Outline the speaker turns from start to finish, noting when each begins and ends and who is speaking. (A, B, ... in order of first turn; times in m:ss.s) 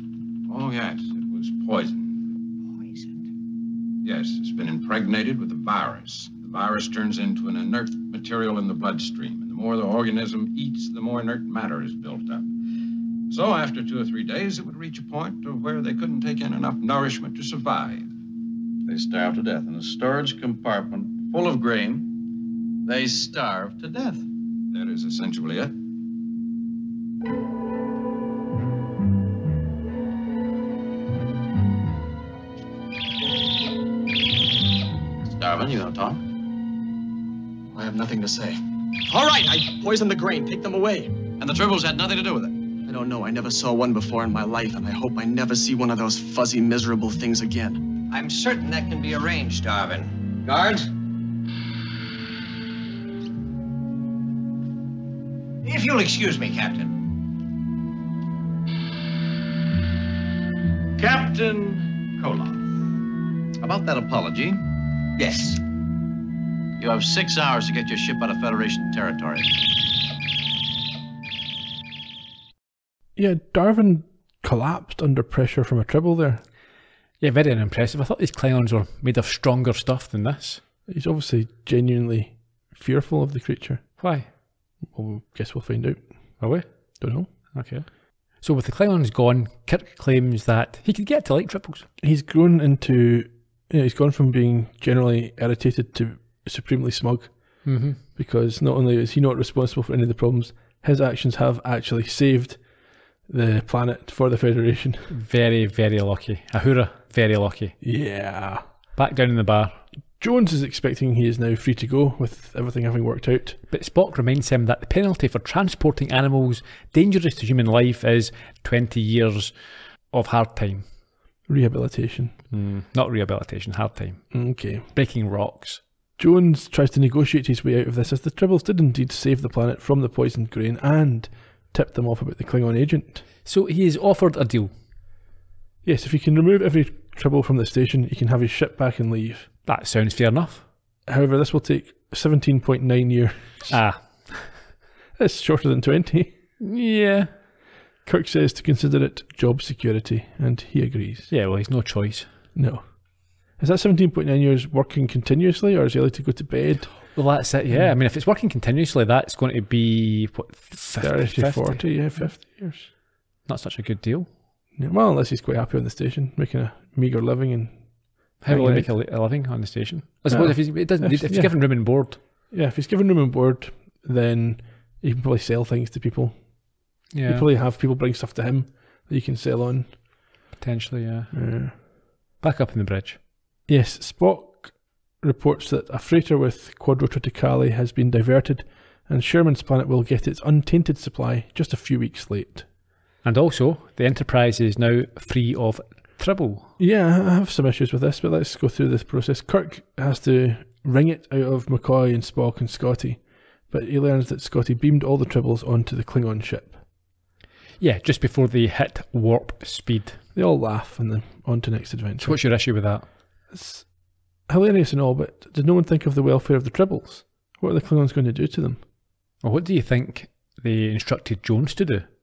0:00.5-0:02.2 A
0:04.0-0:12.5 A
0:13.3-0:18.1 A
0:18.9-0:22.1 B
0:22.8-0:24.3 B
0:24.7-0:25.7 A
0:35.2-0:36.2 B
0:37.8-0:38.5 B
0:39.1-0:41.1 C
0:41.4-0:42.6 B
0:42.9-0:47.9 C
0:48.1-0:50.9 D
0:55.6-0:57.0 D
1:01.0-1:02.6 B
1:03.6-1:04.6 B
1:05.2-1:05.5 D
1:06.8-1:09.5 B
1:13.2-1:16.4 E
1:17.2-1:20.6 F
1:20.9-1:24.0 E
1:24.0-1:24.3 F
1:24.8-1:27.3 E
1:26.4-1:31.9 F
1:32.0-1:45.1 E
1:37.6-1:38.0 F
1:45.1-1:47.8 F
1:47.8-1:48.6 E
1:49.0-1:49.8 F
1:50.2-1:53.6 E
1:53.7-1:59.6 F
2:00.1-2:00.9 F
2:01.5-2:02.4 E
2:02.5-2:05.8 F
2:04.3-2:04.9 E
2:06.2-2:13.3 E
2:13.4-2:14.7 F
2:15.8-2:19.5 E
2:19.7-2:20.6 F
2:21.0-2:23.8 E
2:23.7-2:24.6 F
2:25.2-2:26.3 E
2:26.6-2:27.3 F
2:28.0-2:31.3 E
2:31.3-2:32.3 F
2:32.5-2:38.0 E
2:37.1-2:42.4 F
2:41.0-2:42.9 E
2:43.4-2:44.3 F
2:44.8-2:48.9 E
2:48.4-2:52.2 F
2:50.3-3:00.0 E
2:57.1-2:57.5 F
3:00.6-3:01.8 F
3:01.3-3:01.8 E
3:02.4-3:03.2 F
3:03.7-3:12.7 E
3:13.2-3:16.7 F
3:16.8-3:26.8 E
3:27.8-3:30.2 F
3:30.4-3:32.7 E
3:32.2-3:33.1 F
3:33.5-3:38.8 E
3:39.4-3:42.1 F